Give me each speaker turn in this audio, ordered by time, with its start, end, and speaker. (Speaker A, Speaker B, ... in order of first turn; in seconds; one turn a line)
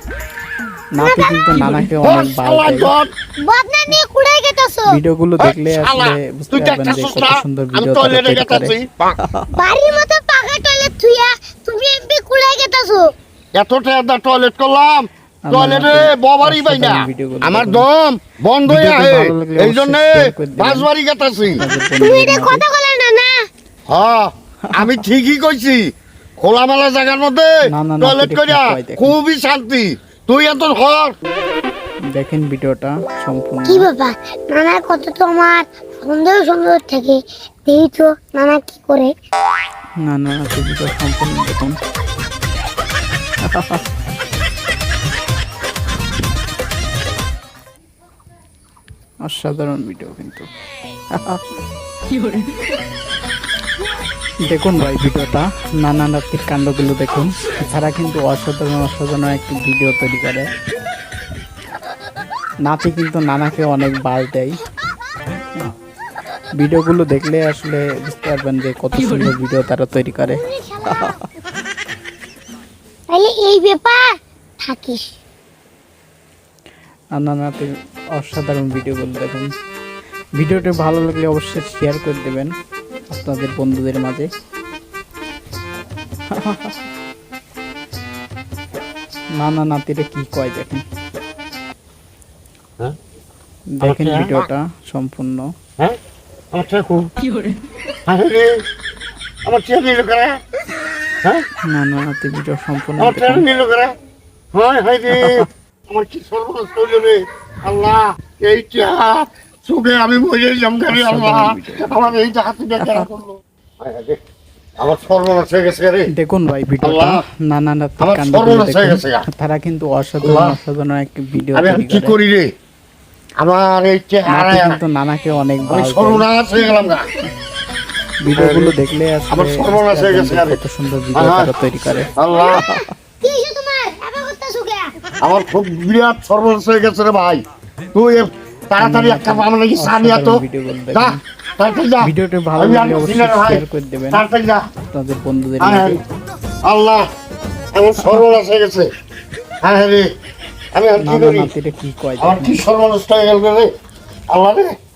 Speaker A: 0.9-2.9
Speaker B: 1.0-1.9
Speaker C: 2.0-3.1
Speaker B: 3.4-5.0
Speaker A: 4.9-9.5
Speaker C: 5.4-9.2
Speaker B: 9.5-13.1
Speaker C: 13.6-21.6
Speaker A: 15.5-17.9
Speaker A: 18.7-20.9
Speaker A: 21.6-22.6
Speaker B: 22.0-23.4
Speaker C: 23.9-25.9
Speaker A: 24.7-25.0
Speaker C: 26.4-31.1
Speaker A: 27.7-29.2
Speaker A: 32.1-33.9
Speaker B: 33.7-39.1
Speaker A: 40.0-41.8
Speaker A: 43.5-43.8
Speaker A: 49.2-50.5
Speaker A: 51.1-51.4
Speaker A: 54.4-60.5
Speaker A: 62.6-64.6
Speaker A: 66.6-71.2
Speaker B: 70.3-71.2
Speaker B: 73.1-75.1
Speaker A: 77.2-79.5
Speaker A: 80.4-82.5
Speaker A: 83.1-84.3
Speaker A: 86.3-86.8
Speaker A: 89.4-90.8
Speaker A: 93.7-95.5
Speaker C: 93.8-94.5
Speaker C: 96.5-97.1
Speaker C: 98.1-98.6
Speaker C: 99.5-100.4
Speaker A: 101.7-103.5
Speaker C: 103.0-103.9
Speaker C: 104.5-114.2
Speaker A: 105.1-105.5
Speaker A: 110.9-112.2
Speaker A: 112.8-113.1
Speaker C: 114.8-116.1
Speaker A: 116.1-122.2
Speaker C: 116.8-117.2
Speaker C: 118.0-119.2
Speaker C: 120.2-120.6
Speaker C: 121.5-122.5
Speaker C: 123.4-124.8
Speaker A: 124.3-126.3
Speaker C: 125.7-127.1
Speaker A: 128.2-132.9
Speaker C: 128.3-128.8
Speaker C: 129.3-130.6
Speaker C: 131.1-131.5
Speaker C: 132.2-132.6
Speaker B: 132.3-134.9
Speaker C: 135.2-137.4
Speaker C: 137.9-140.4
Speaker A: 138.8-141.2
Speaker C: 140.9-144.7
Speaker A: 142.0-144.3
Speaker A: 144.9-146.0
Speaker C: 145.6-146.0
Speaker C: 146.6-147.1
Speaker C: 147.8-148.9
Speaker C: 149.6-150.1
Speaker C: 150.7-151.5
Speaker A: 151.0-152.6
Speaker C: 152.2-153.7
Speaker C: 154.3-154.7